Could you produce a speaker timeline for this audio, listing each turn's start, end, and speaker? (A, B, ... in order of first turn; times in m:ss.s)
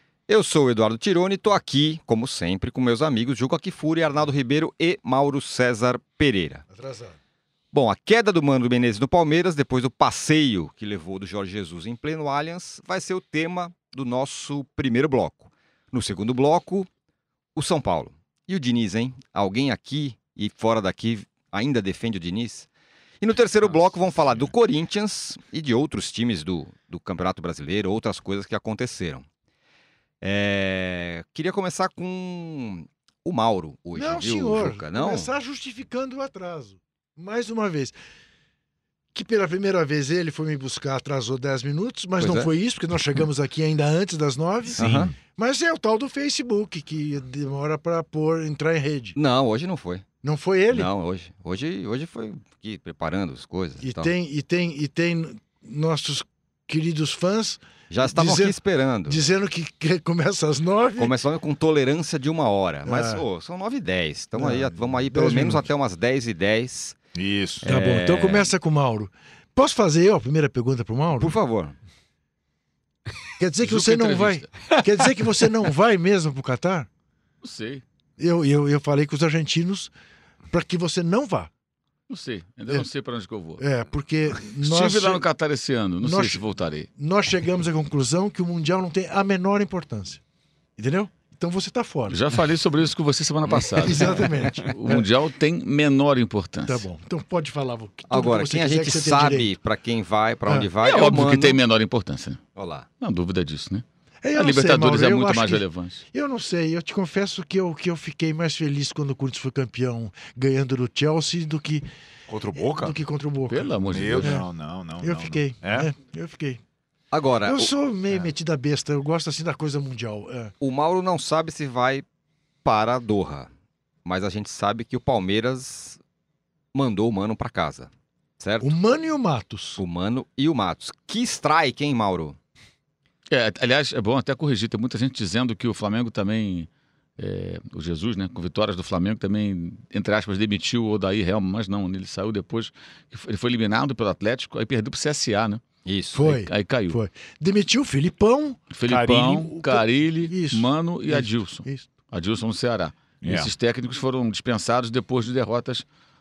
0:00.3-0:06.6 A
0:06.7-0:07.2 B
0:07.7-0:16.9 A
0:17.5-0:22.7 A
0:23.2-0:29.2 A
0:30.2-0:35.3 A
0:33.9-0:38.0 B
0:39.1-0:49.2 B
0:42.2-0:42.5 A
0:44.7-0:45.1 C
0:44.8-0:45.1 A
0:49.1-0:50.0 A
0:50.2-0:50.9 B
0:50.7-0:54.1 A
0:53.8-0:58.5 B
0:57.9-0:59.2 A
0:59.0-1:01.1 B
1:01.0-1:07.0 A
1:02.8-1:03.2 B
1:04.4-1:05.7 B
1:07.2-1:07.6 C
1:07.6-1:08.5 A
1:07.6-1:11.3 B
1:11.2-1:11.8 A
1:13.4-1:16.9 B
1:13.6-1:14.5 D
1:17.4-1:17.8 D
1:18.2-1:19.9 B
1:20.5-1:21.5 B
1:22.1-1:23.6 D
1:23.6-1:25.2 B
1:24.4-1:26.9 D
1:26.0-1:26.4 B
1:27.0-1:30.2 B
1:30.8-1:32.2 B
1:32.1-1:36.8 D
1:33.8-1:35.0 B
1:36.6-1:39.5 B
1:38.1-1:41.6 A
1:40.4-1:40.7 B
1:40.8-1:42.4 D
1:42.6-1:42.9 A
1:43.0-1:46.0 D
1:44.2-1:51.8 B
1:52.3-1:53.0 C
1:52.5-1:54.5 B
1:53.5-1:54.4 D
1:53.9-1:55.9 C
1:55.0-1:56.6 B
1:57.1-1:57.7 A
1:57.4-2:00.5 B
2:00.6-2:02.0 A
2:02.6-2:03.5 A
2:04.0-2:06.0 A
2:06.7-2:08.7 A
2:08.6-2:09.8 B
2:09.8-2:12.4 A
2:13.3-2:25.6 D
2:25.8-2:26.2 A
2:26.1-2:31.9 B
2:26.2-2:27.0 D
2:28.7-2:35.8 D
2:33.2-2:33.5 C